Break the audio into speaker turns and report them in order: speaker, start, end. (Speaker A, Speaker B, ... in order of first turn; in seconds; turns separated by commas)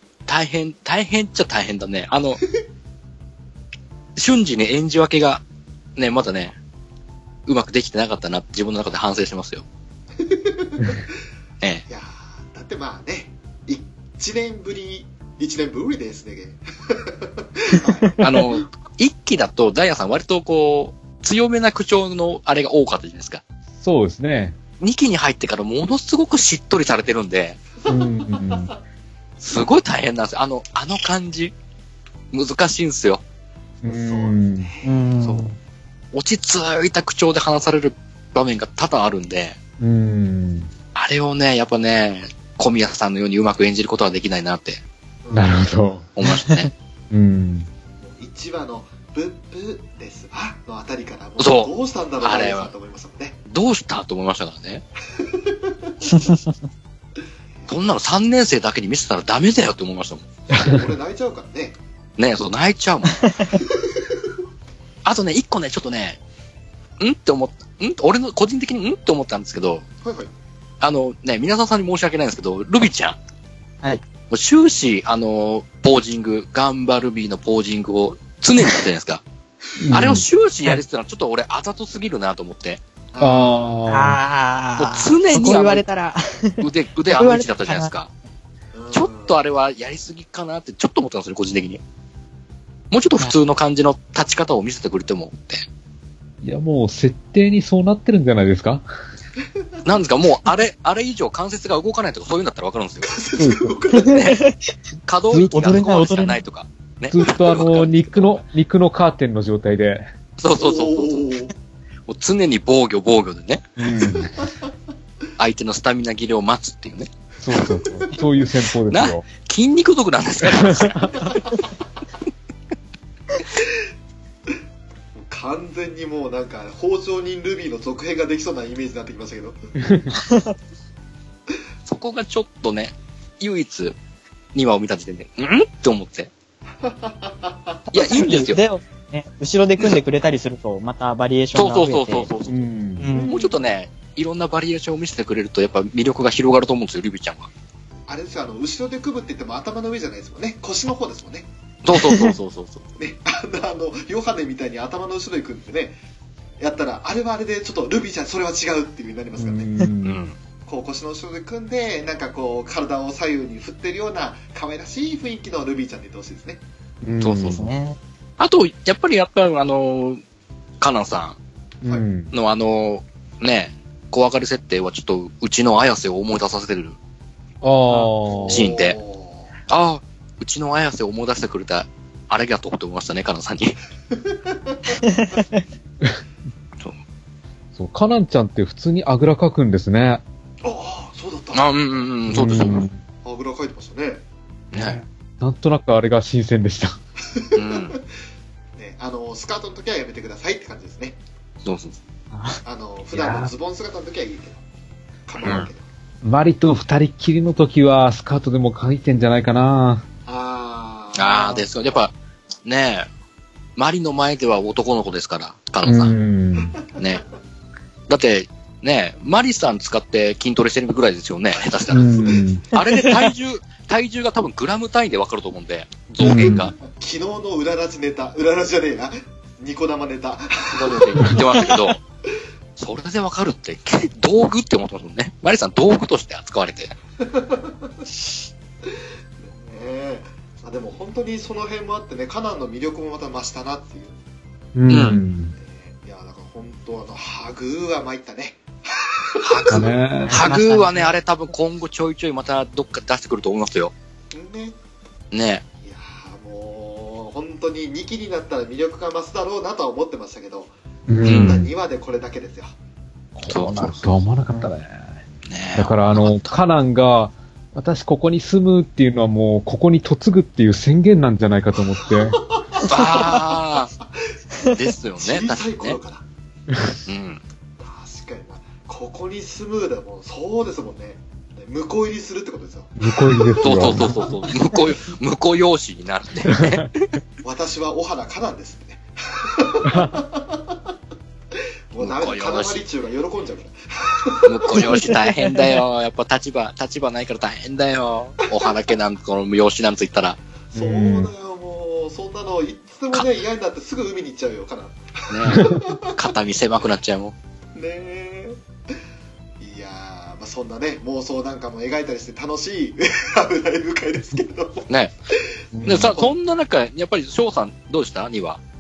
Speaker A: 0.3-2.4, Speaker A: 4.2-5.4, Speaker A: 6.0-6.6, Speaker A: 7.5-9.7, Speaker B: 10.2-10.9, Speaker B: 11.9-18.2, Speaker A: 18.2-23.4, Speaker C: 23.8-24.6, Speaker A: 24.8-27.6, Speaker B: 27.8-28.7, Speaker C: 27.9-28.7, Speaker A: 29.4-31.5, Speaker A: 32.3-33.2, Speaker C: 33.8-34.7, Speaker B: 33.9-35.1, Speaker D: 34.8-35.6, Speaker A: 36.1-39.6, Speaker C: 39.8-40.7, Speaker A: 41.0-44.8, Speaker B: 45.2-46.0, Speaker C: 45.3-46.0, Speaker A: 46.2-46.7, Speaker D: 46.2-46.7, Speaker C: 47.1-47.7, Speaker B: 48.0-53.4, Speaker A: 51.4-52.7, Speaker A: 53.5-54.9, Speaker B: 55.2-55.9, Speaker D: 56.1-56.4, Speaker A: 57.7-60.8, Speaker B: 60.5-61.8, Speaker A: 62.2-63.3, Speaker A: 65.0-66.2, Speaker A: 67.0-69.8, Speaker B: 70.0-70.3, Speaker A: 70.8-73.2, Speaker A: 74.3-79.2, Speaker C: 79.8-80.3, Speaker A: 79.9-82.8, Speaker B: 83.1-83.7, Speaker C: 83.2-84.2, Speaker D: 83.9-87.9, Speaker A: 84.8-85.8, Speaker A: 86.6-88.1, Speaker B: 88.7-89.4, Speaker A: 88.9-91.8, Speaker A: 92.9-95.6, Speaker C: 96.4-98.9, Speaker A: 99.8-103.1, Speaker B: 103.0-104.2, Speaker C: 103.4-103.8, Speaker D: 103.9-104.7, Speaker A: 104.1-104.4, Speaker A: 105.1-108.4, Speaker C: 105.3-105.5, Speaker D: 105.5-106.4, Speaker C: 107.1-110.1, Speaker A: 110.4-111.2, Speaker B: 110.6-111.5, Speaker A: 112.1-113.6, Speaker C: 113.8-114.5, Speaker A: 115.4-117.1, Speaker C: 117.4-119.2, Speaker B: 117.6-118.1, Speaker A: 118.9-121.3, Speaker C: 120.4-121.1, Speaker B: 121.1-121.6, Speaker B: 125.2-129.6, Speaker C: 129.8-130.1, Speaker D: 130.1-130.6, Speaker A: 131.9-134.0, Speaker A: 134.6-136.3, Speaker B: 136.8-137.9, Speaker D: 137.9-142.3, Speaker A: 137.9-138.6, Speaker A: 141.5-142.6, Speaker C: 142.5-143.1, Speaker D: 143.0-143.3, Speaker B: 143.1-143.6, Speaker A: 143.2-147.5, Speaker B: 148.1-151.5, Speaker A: 151.8-152.8, Speaker D: 151.9-152.3, Speaker B: 153.0-156.0, Speaker B: 156.6-159.7, Speaker C: 159.4-160.3, Speaker A: 160.0-160.3, Speaker B: 160.7-166.6, Speaker C: 167.0-167.7, Speaker A: 167.2-167.6, Speaker D: 167.5-168.0, Speaker A: 168.4-170.2, Speaker A: 170.8-171.4, Speaker C: 171.8-172.3, Speaker A: 172.3-177.0, Speaker C: 177.6-178.7, Speaker B: 178.3-179.5, Speaker A: 178.5-179.0, Speaker A: 179.7-183.8, Speaker B: 184.1-185.0, Speaker D: 185.0-185.5, Speaker C: 187.8-190.2, Speaker B: 190.6-191.7, Speaker A: 191.5-192.8, Speaker C: 192.3-193.0, Speaker B: 193.2-194.2, Speaker A: 194.7-195.0, Speaker C: 194.7-197.0, Speaker B: 197.3-198.0, Speaker A: 197.6-198.0, Speaker B: 198.8-201.2, Speaker A: 201.6-202.0, Speaker D: 202.3-202.6, Speaker B: 202.7-204.6, Speaker C: 203.1-203.5, Speaker B: 205.3-205.8, Speaker A: 205.4-205.7, Speaker C: 206.2-210.1, Speaker B: 210.3-211.6, Speaker A: 211.2-212.1, Speaker A: 212.7-213.1, Speaker A: 213.8-216.1, Speaker C: 215.8-216.8, Speaker A: 217.0-217.2, Speaker A: 218.1-226.8, Speaker C: 221.9-222.7, Speaker B: 222.0-222.5, Speaker D: 222.8-223.3, Speaker C: 226.2-226.7, Speaker B: 226.2-231.7, Speaker A: 230.7-232.0, Speaker A: 232.8-236.9, Speaker B: 237.2-237.9, Speaker B: 238.9-244.2, Speaker C: 244.8-245.6, Speaker A: 244.9-245.2, Speaker B: 245.6-249.9, Speaker A: 249.4-253.9, Speaker C: 249.7-250.5, Speaker D: 250.2-251.2, Speaker B: 254.3-254.8, Speaker A: 255.3-255.6, Speaker B: 255.8-260.7, Speaker C: 261.1-261.7, Speaker B: 261.2-262.7, Speaker A: 261.2-261.6, Speaker C: 263.4-265.2, Speaker A: 263.5-264.2, Speaker A: 265.5-266.5, Speaker C: 265.8-272.4, Speaker B: 272.1-273.5, Speaker A: 272.8-273.9, Speaker A: 274.7-276.0, Speaker B: 275.2-276.2, Speaker A: 277.1-277.4, Speaker B: 277.8-283.8, Speaker C: 283.0-284.3, Speaker A: 283.6-286.9, Speaker C: 286.5-286.9, Speaker B: 287.4-290.8, Speaker C: 289.9-290.2, Speaker B: 291.9-295.1, Speaker A: 292.0-292.8, Speaker A: 294.5-300.4, Speaker D: 294.8-295.8, Speaker B: 300.7-306.1, Speaker C: 300.7-301.3, Speaker A: 305.3-307.4, Speaker C: 305.5-305.8, Speaker B: 307.8-308.6, Speaker B: 309.6-314.9, Speaker C: 315.7-316.2, Speaker B: 315.8-316.4, Speaker A: 315.9-318.6